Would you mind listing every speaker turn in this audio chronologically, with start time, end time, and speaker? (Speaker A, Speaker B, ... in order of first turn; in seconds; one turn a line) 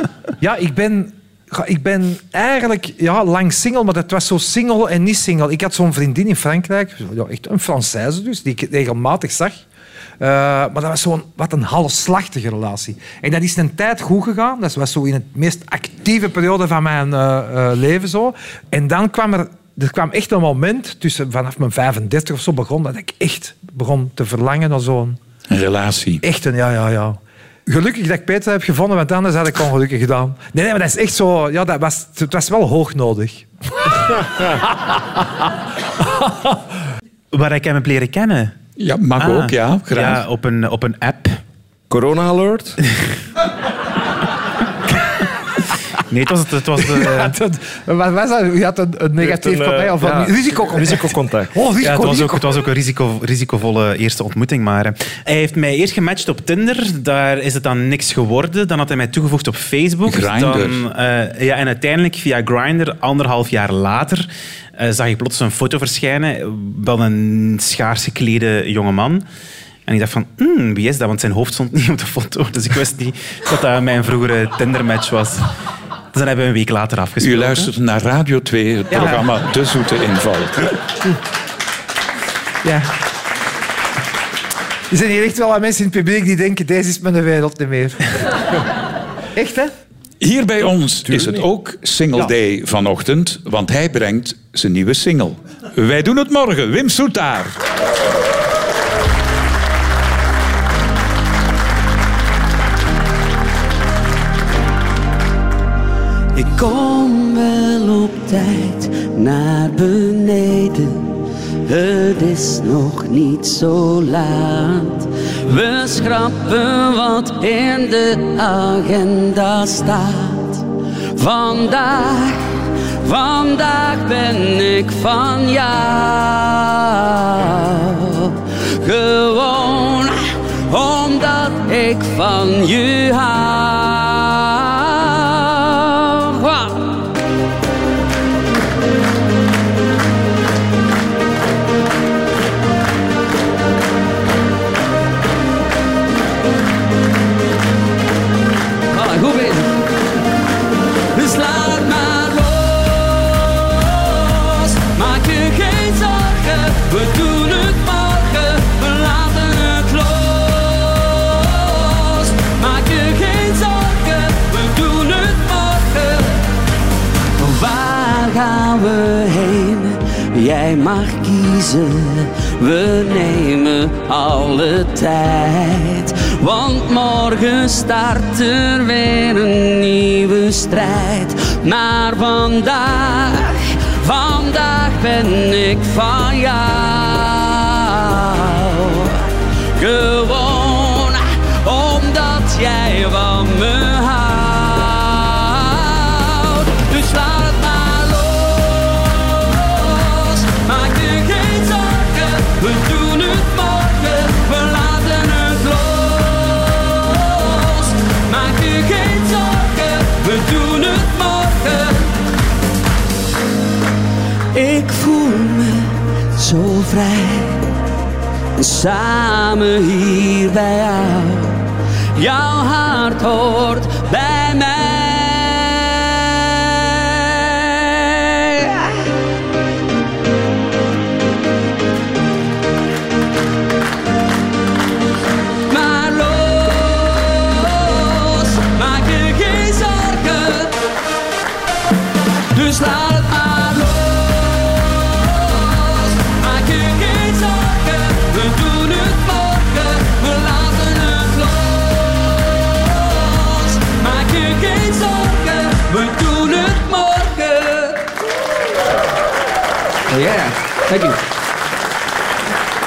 Speaker A: 0.4-9.6
Speaker A: 10.2-25.2
Speaker B: 25.5-26.2
Speaker A: 26.2-33.5
Speaker C: 37.3-38.5
Speaker B: 38.8-40.2
Speaker C: 39.2-41.4
Speaker D: 41.9-42.8
Speaker C: 46.1-47.3
Speaker A: 46.9-52.4
Speaker D: 49.2-51.6
Speaker C: 51.8-69.2
Speaker B: 60.0-60.8
Speaker C: 69.9-75.5
Speaker C: 76.1-77.7
Speaker B: 77.2-80.8
Speaker A: 78.9-79.2
Speaker A: 82.6-82.9
Speaker A: 84.9-88.2
Speaker A: 89.3-89.7
Speaker B: 90.2-97.5
Speaker D: 91.1-91.4
Speaker E: 106.3-137.1
Speaker E: 148.9-149.9
Speaker E: 151.1-166.5
Speaker E: 167.4-212.2
Speaker E: 214.5-217.7
Speaker E: 218.6-229.1
Speaker E: 235.7-240.9
Speaker E: 242.5-258.1
Speaker E: 260.1-261.2